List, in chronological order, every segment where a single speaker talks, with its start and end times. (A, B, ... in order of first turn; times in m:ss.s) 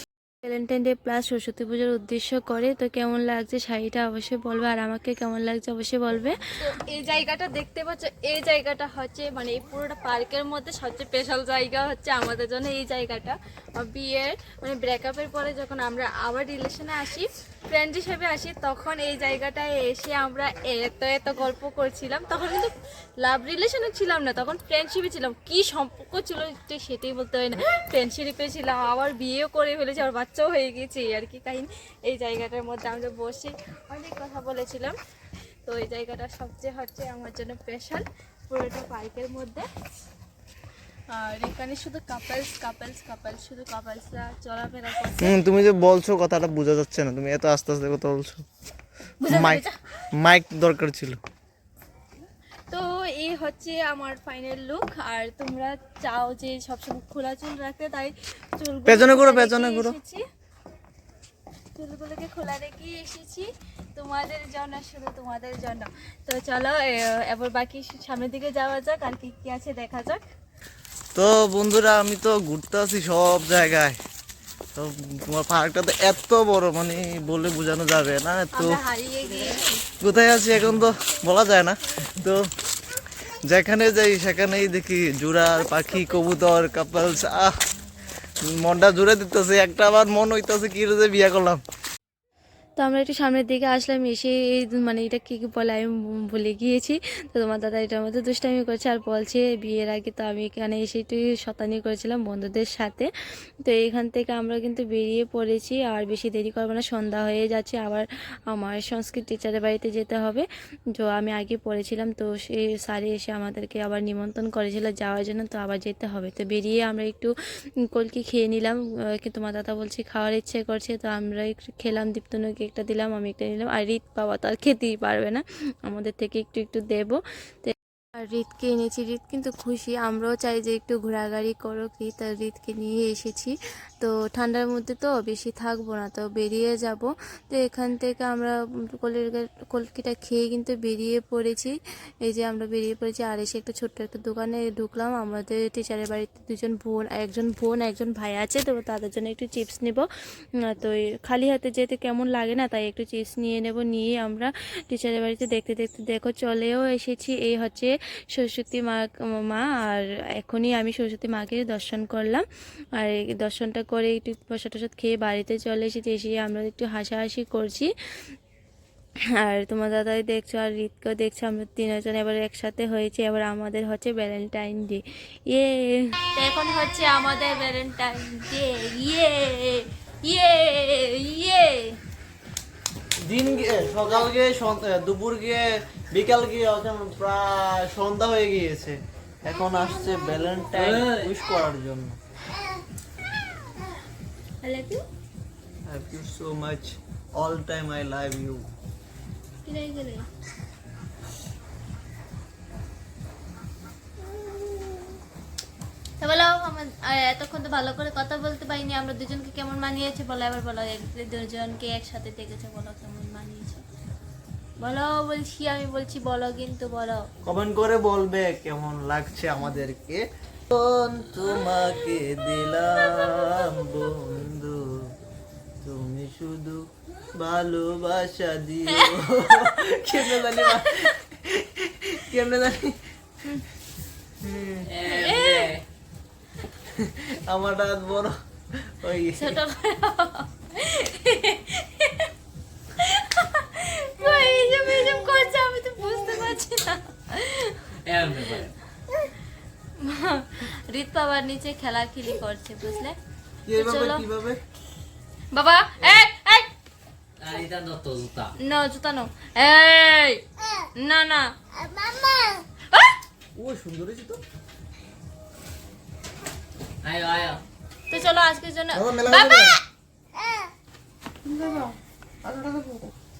0:00.4-0:35.0 A
0:25.9-0:27.6 B
0:29.1-0:29.6 B
0:35.7-0:39.6 A
0:41.1-0:45.3 A
0:45.2-0:48.4 C
0:49.2-0:49.8 A
0:49.3-0:51.2 C
0:52.7-1:00.2 A
0:58.9-1:00.0 C
1:01.8-1:10.2 A
1:11.2-1:14.0 C
1:14.8-1:18.8 C
1:18.6-1:19.8 A
1:20.0-1:22.5 C
1:23.5-1:27.5 C
1:28.4-1:31.6 C
1:32.8-1:43.1 A
1:43.7-1:57.3 A
1:57.9-2:30.1 A
2:30.7-2:42.4 A
2:43.0-2:47.9 A
2:49.4-3:01.9 A
3:03.2-3:12.2 C
3:10.8-3:11.3 B
3:14.6-3:15.0 A
3:15.9-3:18.7 C
3:19.6-3:20.2 A
3:24.4-3:24.9 A
3:26.2-3:33.8 A
3:34.8-3:37.2 A
3:37.4-3:45.0 C
3:45.8-3:53.0 C
3:50.5-3:50.9 A
3:54.4-3:54.9 C
3:54.8-3:55.8 B
3:55.0-3:55.7 A
3:56.9-3:59.6 C
3:59.4-4:02.3 A
4:03.0-4:07.9 A
4:08.0-4:08.7 B
4:10.0-4:13.2 A
4:13.7-4:14.6 C
4:13.7-4:14.2 A
4:15.5-4:16.7 A
4:17.4-4:18.5 B
4:18.6-4:20.4 A
4:21.0-4:23.1 A
4:23.6-4:24.4 C
4:27.0-4:27.6 B
4:28.1-4:29.8 A
4:28.9-4:29.8 C
4:31.4-4:33.1 C